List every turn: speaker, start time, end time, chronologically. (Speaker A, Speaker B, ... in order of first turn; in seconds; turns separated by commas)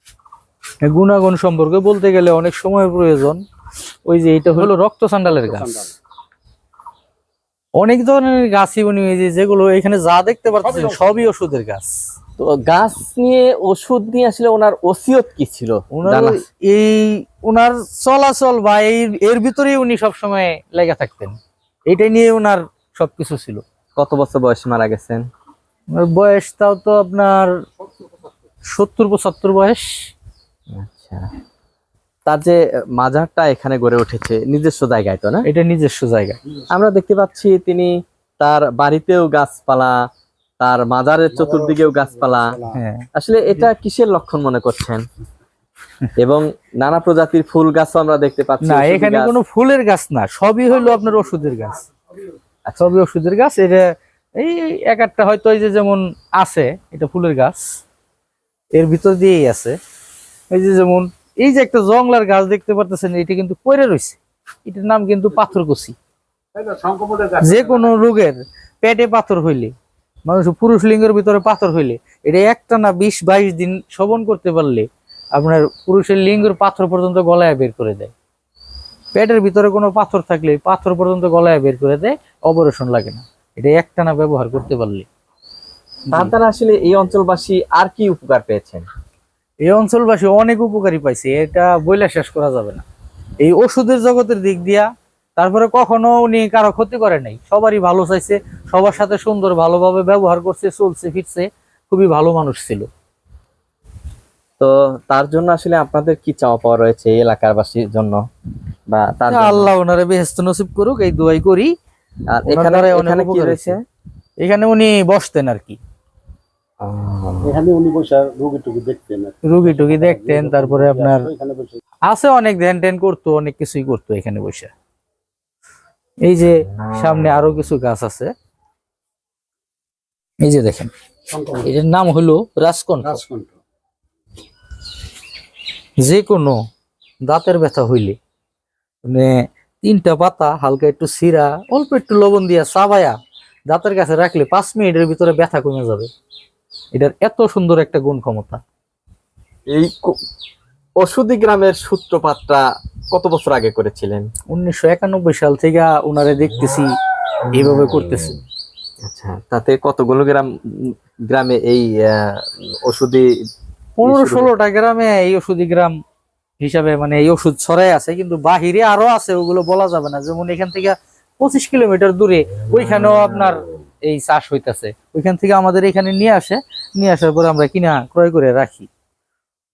Speaker A: 0.8-3.4, Speaker A: 4.1-5.9, Speaker B: 5.4-5.9, Speaker A: 7.8-11.9, Speaker C: 12.4-16.4, Speaker A: 15.9-23.6, Speaker C: 24.0-25.2, Speaker A: 25.9-27.5, Speaker A: 28.7-29.9, Speaker C: 30.7-31.2, Speaker C: 32.2-35.5, Speaker A: 35.5-36.4, Speaker C: 36.7-39.9, Speaker C: 40.6-42.6, Speaker B: 41.4-42.8, Speaker A: 42.7-43.0, Speaker C: 43.1-45.0, Speaker C: 46.2-49.4, Speaker A: 48.6-51.9, Speaker A: 52.8-53.8, Speaker A: 54.4-57.8, Speaker A: 58.7-59.8, Speaker A: 60.5-66.0, Speaker B: 66.6-67.8, Speaker A: 67.4-69.7, Speaker A: 70.2-78.1, Speaker A: 79.1-85.1, Speaker C: 86.1-88.8, Speaker A: 89.6-92.8, Speaker A: 93.4-102.9, Speaker C: 104.6-108.2, Speaker C: 108.9-109.7, Speaker A: 109.3-111.7, Speaker C: 112.3-113.8, Speaker A: 112.5-113.8, Speaker A: 114.4-115.8, Speaker C: 116.8-117.6, Speaker B: 117.4-121.8, Speaker A: 119.4-121.3, Speaker A: 122.1-124.7, Speaker A: 126.2-128.3, Speaker A: 130.4-130.9, Speaker B: 131.3-131.7, Speaker A: 131.6-133.2, Speaker B: 133.0-133.6, Speaker A: 136.0-136.6, Speaker A: 137.3-138.2, Speaker A: 139.1-143.1, Speaker A: 143.7-146.1, Speaker A: 146.9-148.6, Speaker C: 149.7-150.2, Speaker C: 151.0-154.3, Speaker A: 154.5-156.9, Speaker A: 157.5-158.4, Speaker C: 159.0-163.3, Speaker A: 164.0-165.9, Speaker C: 164.0-164.5, Speaker A: 166.6-178.9